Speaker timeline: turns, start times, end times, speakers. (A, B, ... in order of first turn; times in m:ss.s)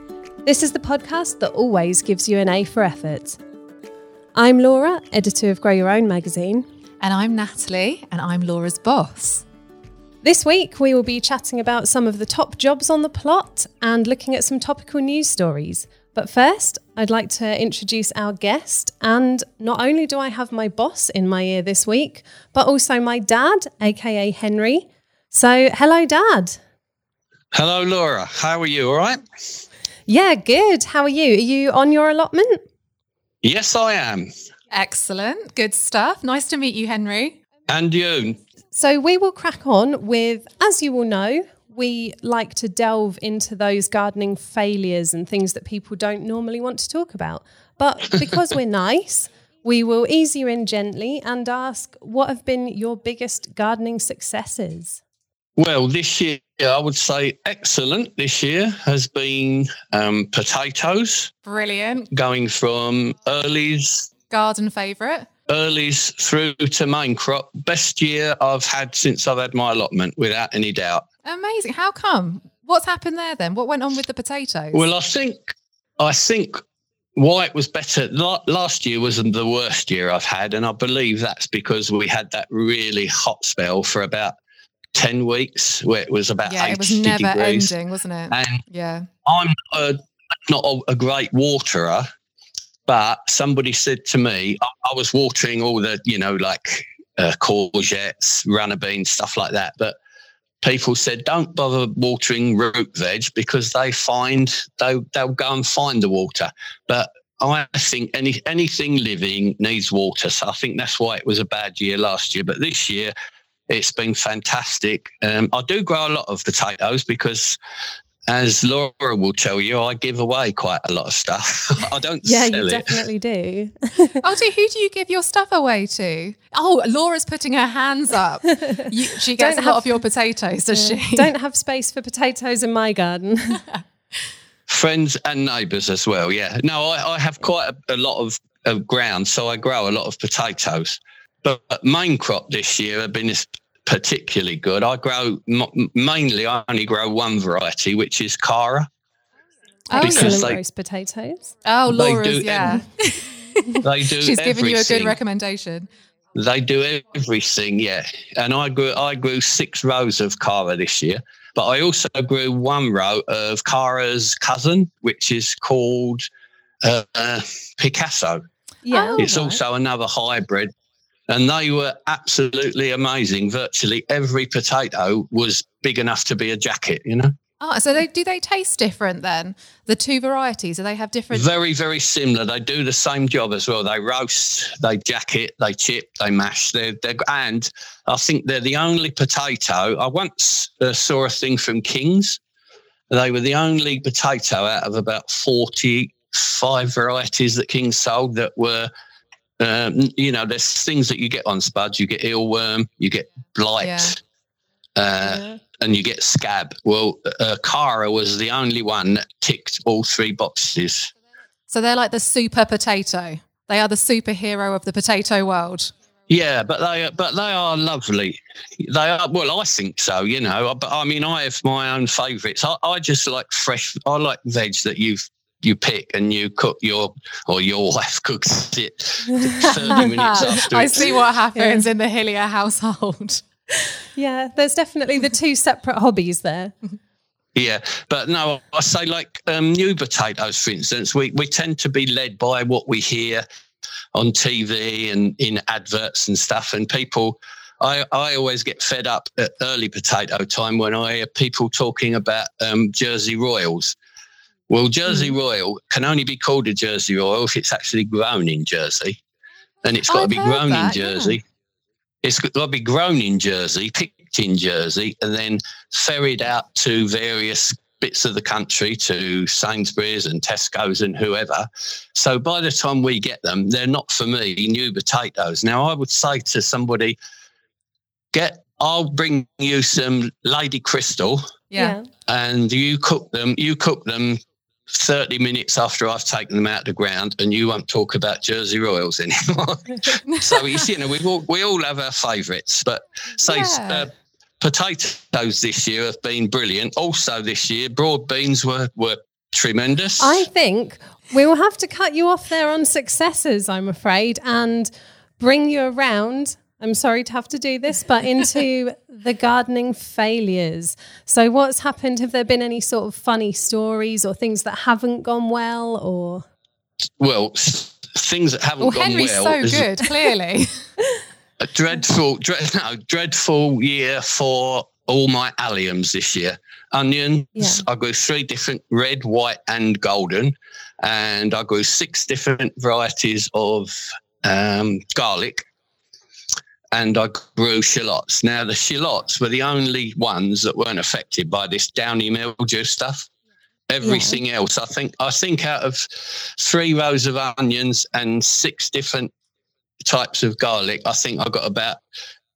0:00.4-0:03.4 A
0:04.3-0:06.6 A
0:07.0-0:09.4 B
0:10.2-0:26.6 A
0:27.5-0:29.2 C
0:30.1-0:32.6 A
0:33.4-0:34.3 C
0:34.7-0:37.4 B
0:37.7-0:38.4 C
0:38.7-0:55.0 A
0:55.6-1:01.3 C
1:01.4-1:02.1 B
1:02.1-1:04.1 C
1:04.3-1:05.3 B
1:05.5-1:11.0 C
1:11.2-1:14.8 B
1:14.7-1:16.6 C
1:17.2-1:24.3 C
1:24.9-1:27.7 C
1:26.4-1:29.1 B
1:28.3-1:28.6 C
1:29.2-1:32.1 C
1:32.9-1:40.0 C
1:40.6-1:53.1 C
1:53.7-1:57.6 C
1:58.3-2:03.0 C
2:02.2-2:04.2 A
2:04.2-2:11.3 B
2:09.4-2:09.9 A
2:10.7-2:13.6 A
2:14.7-2:28.9 C
2:29.9-2:30.4 B
2:29.9-2:31.5 A
2:30.0-2:30.6 C
2:31.6-2:35.9 B
2:31.9-2:32.8 C
2:33.8-2:35.2 C
2:36.3-2:46.2 C
2:46.8-2:48.4 C
2:48.8-2:49.3 A
2:48.9-2:49.6 B
2:49.2-2:50.7 C
2:51.3-2:57.3 C
2:57.6-3:01.4 B
3:01.3-3:12.4 C
3:13.1-3:18.9 C
3:19.6-3:24.2 C
3:23.8-3:24.2 B
3:25.0-3:31.1 C
3:25.2-3:25.6 A
3:31.7-3:35.9 B
3:36.3-3:51.2 C
3:49.5-3:50.0 A
3:50.0-3:53.4 B
3:51.5-3:51.8 A
3:54.1-3:56.7 A
3:57.5-4:03.4 C
4:04.1-4:14.0 C
4:14.7-4:19.2 C
4:19.8-4:21.4 C
4:20.1-4:21.4 B
4:22.2-4:37.2 C
4:38.3-4:41.4 C
4:41.7-4:42.0 B
4:41.8-4:42.1 A
4:42.3-5:00.4 C
4:50.3-4:50.7 B
4:53.4-4:54.1 B
5:00.2-5:16.4 A
5:17.2-5:19.9 C
5:18.8-5:20.9 B
5:21.6-5:35.7 C
5:27.5-5:27.8 A
5:36.9-5:43.3 C
5:43.9-5:49.3 C
5:44.0-5:44.4 A
5:50.0-5:52.0 C